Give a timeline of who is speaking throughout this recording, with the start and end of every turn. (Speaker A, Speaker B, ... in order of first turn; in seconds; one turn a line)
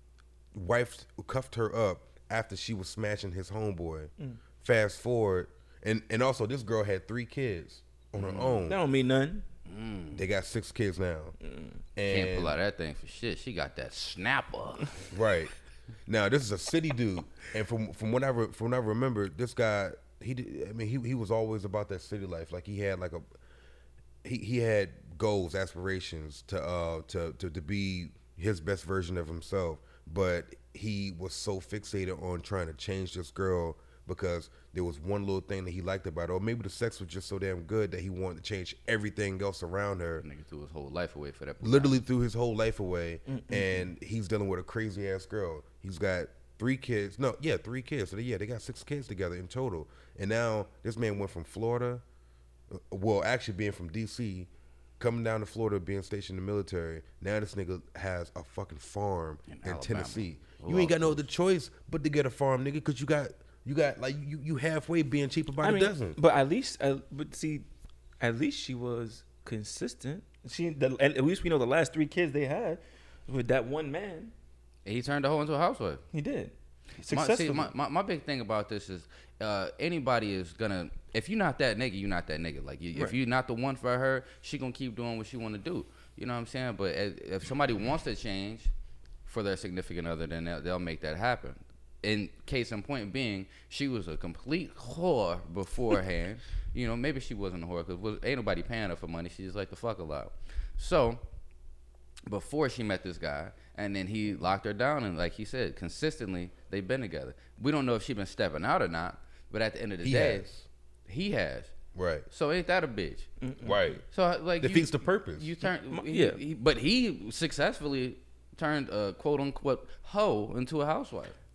Speaker A: 0.5-8.8
Speaker B: 8.2-8.6
Speaker C: 8.7-9.4
Speaker B: 9.7-10.2
Speaker A: 10.1-11.3
Speaker C: 11.4-11.8
Speaker A: 11.9-12.6
Speaker B: 12.1-15.1
Speaker A: 15.1-15.5
Speaker A: 16.1-23.2
Speaker A: 24.2-40.2
Speaker B: 40.2-42.0
Speaker A: 41.6-52.0
Speaker C: 43.3-43.9
Speaker A: 52.7-66.2
Speaker B: 59.5-61.2
Speaker C: 65.6-67.7
Speaker C: 68.2-74.3
Speaker B: 74.8-76.0
Speaker C: 76.1-77.7
Speaker B: 77.1-88.7
Speaker B: 89.2-101.2
Speaker B: 102.2-110.5
Speaker A: 110.0-110.7
Speaker B: 111.1-111.7
Speaker A: 111.9-112.3
Speaker B: 112.3-113.3
Speaker C: 113.4-113.9
Speaker A: 113.6-114.0
Speaker B: 114.1-121.3
Speaker A: 114.6-115.5
Speaker C: 115.8-116.4